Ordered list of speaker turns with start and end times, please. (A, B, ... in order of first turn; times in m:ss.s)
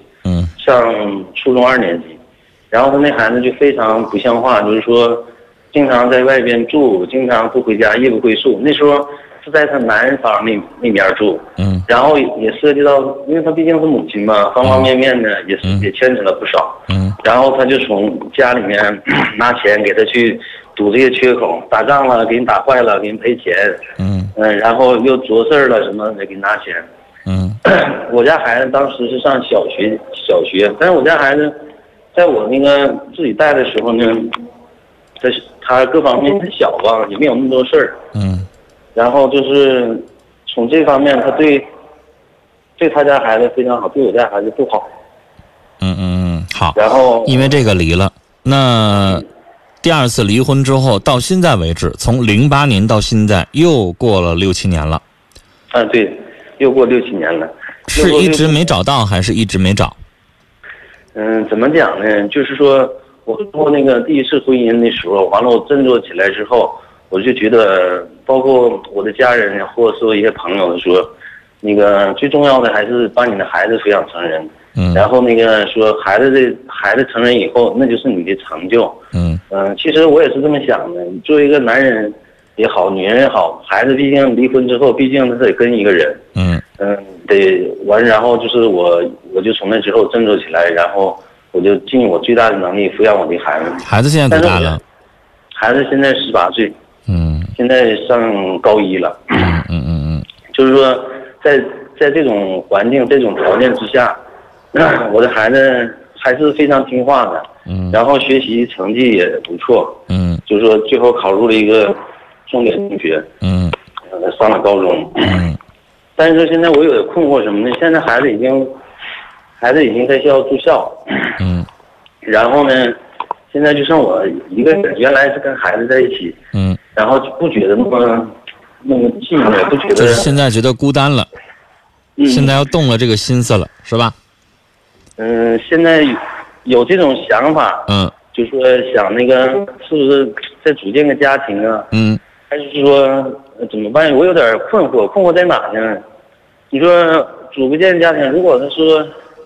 0:00.2-0:00.5 A
0:00.6-0:02.2 B
0:02.7-0:26.8 B
0:11.6-0:11.8 A
0:16.9-0:17.2 A
0:24.0-0:24.3 A
0:27.2-0:27.6 A
0:27.6-0:31.6 B
0:32.1-0:34.4 B
0:35.2-0:38.0 B
0:38.1-0:38.4 A
0:39.0-0:41.7 B
0:42.8-0:44.9 B
0:45.8-0:49.3 A
0:46.7-0:47.5 B
0:49.8-0:55.0 A
0:55.7-0:58.7 B
0:57.9-1:00.0 A
1:01.1-1:19.0 B
1:14.8-1:15.0 A
1:19.1-1:19.4 A
1:19.5-1:26.2 B
1:26.4-1:26.6 A
1:26.8-1:34.8 B
1:33.8-1:34.8 A
1:35.5-1:36.7 B
1:37.1-1:37.5 A
1:37.6-1:39.6 B
1:39.4-1:40.2 A
1:40.5-1:44.2 B
1:44.7-1:53.3 B
1:47.7-1:47.9 A
1:50.1-1:50.4 A
1:53.4-1:53.7 A
1:54.1-1:55.4 B
1:55.3-1:55.6 A
1:56.2-1:58.7 B
1:59.6-2:01.4 B
2:01.4-2:01.7 A
2:02.2-2:03.0 B
2:03.5-2:06.4 B
2:06.5-2:06.8 A
2:06.9-2:10.3 B
2:09.9-2:11.3 A
2:12.2-2:12.6 B
2:12.2-2:14.1 A
2:15.2-2:21.9 B
2:17.9-2:18.1 A
2:21.9-2:22.2 A
2:22.5-2:26.0 B
2:26.7-2:29.1 B